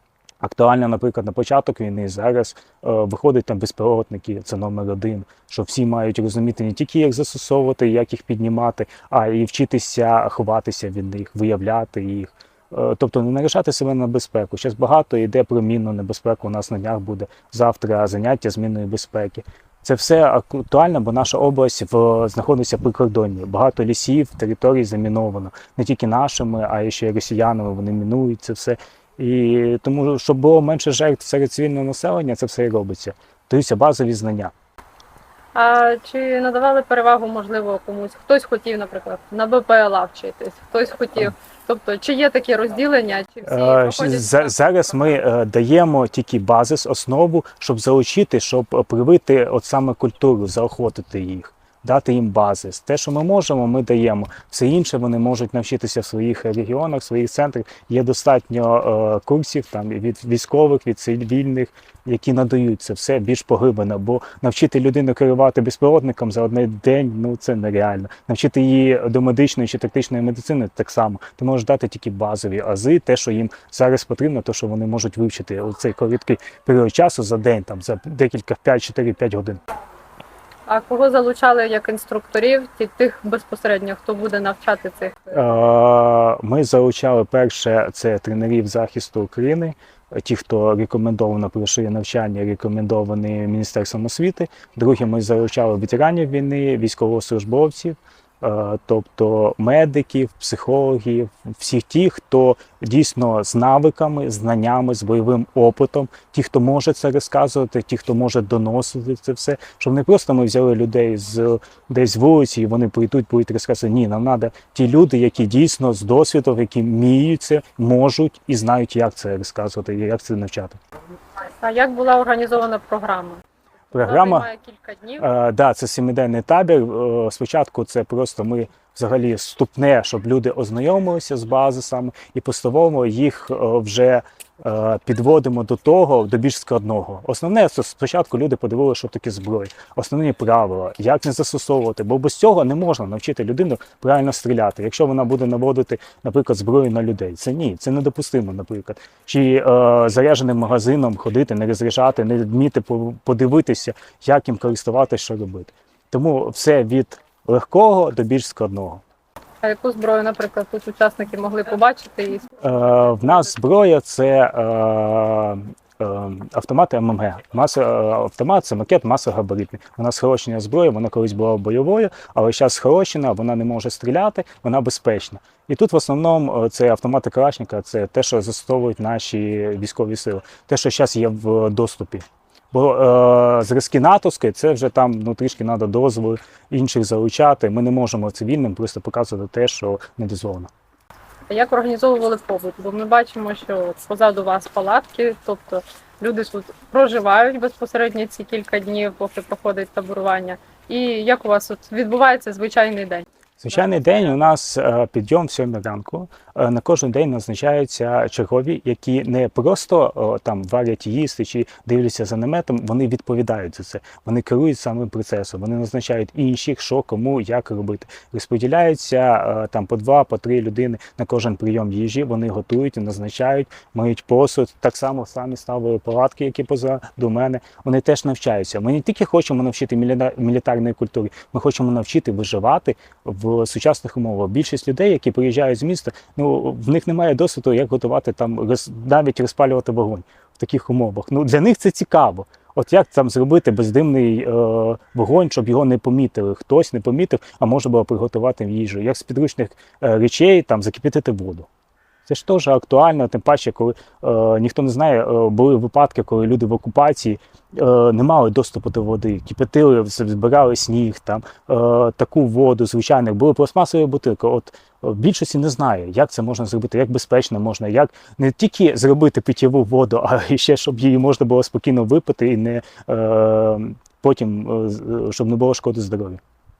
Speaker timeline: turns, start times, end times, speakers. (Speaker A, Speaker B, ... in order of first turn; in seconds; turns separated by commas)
Speaker A: 0.4-34.5, Speaker B: 35.5-45.2, Speaker A: 43.5-79.6, Speaker B: 80.7-85.5, Speaker A: 85.3-120.8, Speaker B: 121.6-125.3, Speaker A: 123.9-124.5, Speaker A: 125.2-159.0, Speaker B: 159.6-162.6, Speaker A: 162.6-190.7, Speaker B: 191.5-204.3, Speaker A: 203.6-251.7, Speaker A: 252.3-276.4